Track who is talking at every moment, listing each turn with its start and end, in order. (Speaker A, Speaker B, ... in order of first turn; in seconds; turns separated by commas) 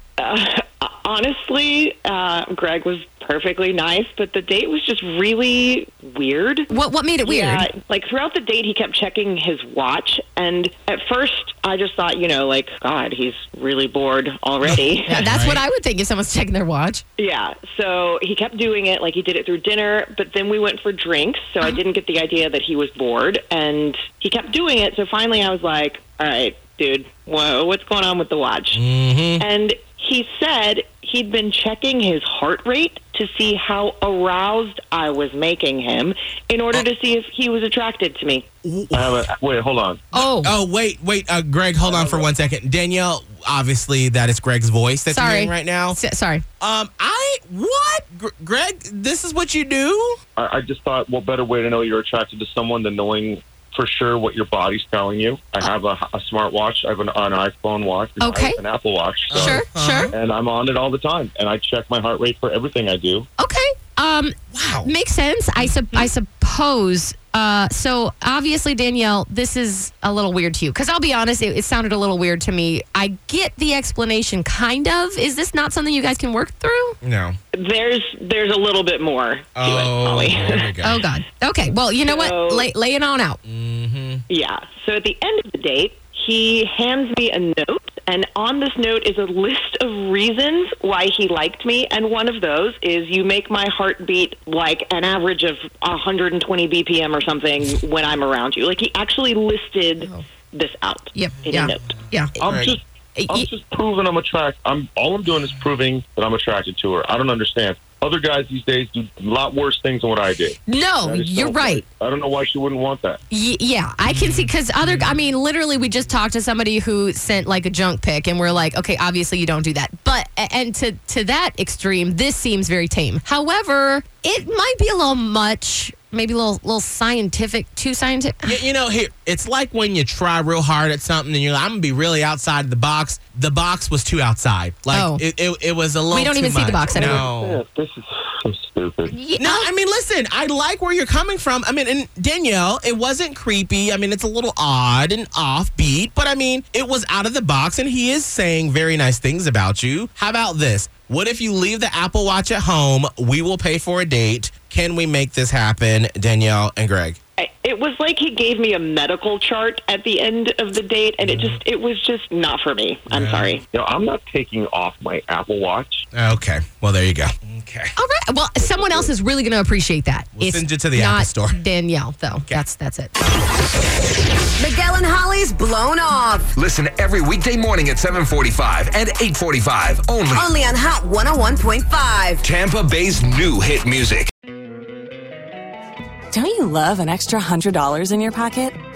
Speaker A: 0.2-6.7, Speaker B: 6.7-7.7, Speaker A: 7.2-15.2, Speaker C: 14.6-15.6, Speaker B: 15.1-17.0, Speaker A: 17.2-28.8, Speaker C: 28.7-29.4, Speaker A: 29.4-38.4, Speaker C: 38.6-39.3, Speaker D: 38.9-40.1, Speaker B: 40.1-40.5, Speaker C: 40.3-46.0, Speaker D: 41.8-42.3, Speaker B: 45.1-46.5, Speaker C: 46.6-50.2, Speaker D: 50.4-63.2, Speaker B: 58.2-58.6, Speaker C: 59.3-60.1, Speaker B: 59.3-60.1, Speaker B: 63.4-77.0, Speaker C: 64.5-64.9, Speaker C: 65.6-66.1, Speaker C: 77.0-77.4, Speaker A: 77.5-80.7, Speaker C: 79.5-81.0, Speaker B: 80.8-83.4, Speaker A: 82.1-82.7, Speaker C: 83.5-84.2, Speaker A: 84.3-102.0, Speaker B: 101.1-102.4, Speaker C: 102.4-102.7, Speaker D: 102.4-113.2, Speaker B: 103.2-103.5, Speaker B: 110.7-111.8, Speaker B: 113.3-128.6, Speaker C: 114.0-115.2, Speaker C: 128.4-137.6, Speaker B: 134.9-135.2, Speaker B: 136.1-137.3, Speaker D: 136.9-139.2, Speaker B: 139.1-139.7, Speaker C: 139.4-157.2, Speaker A: 157.4-163.6, Speaker C: 163.1-163.5, Speaker D: 163.7-166.1, Speaker C: 166.1-167.9, Speaker B: 168.0-173.3, Speaker D: 168.6-169.1, Speaker C: 170.4-171.6, Speaker E: 174.6-176.5, Speaker F: 176.5-180.4, Speaker E: 180.3-182.4, Speaker F: 182.4-184.3, Speaker G: 186.3-188.8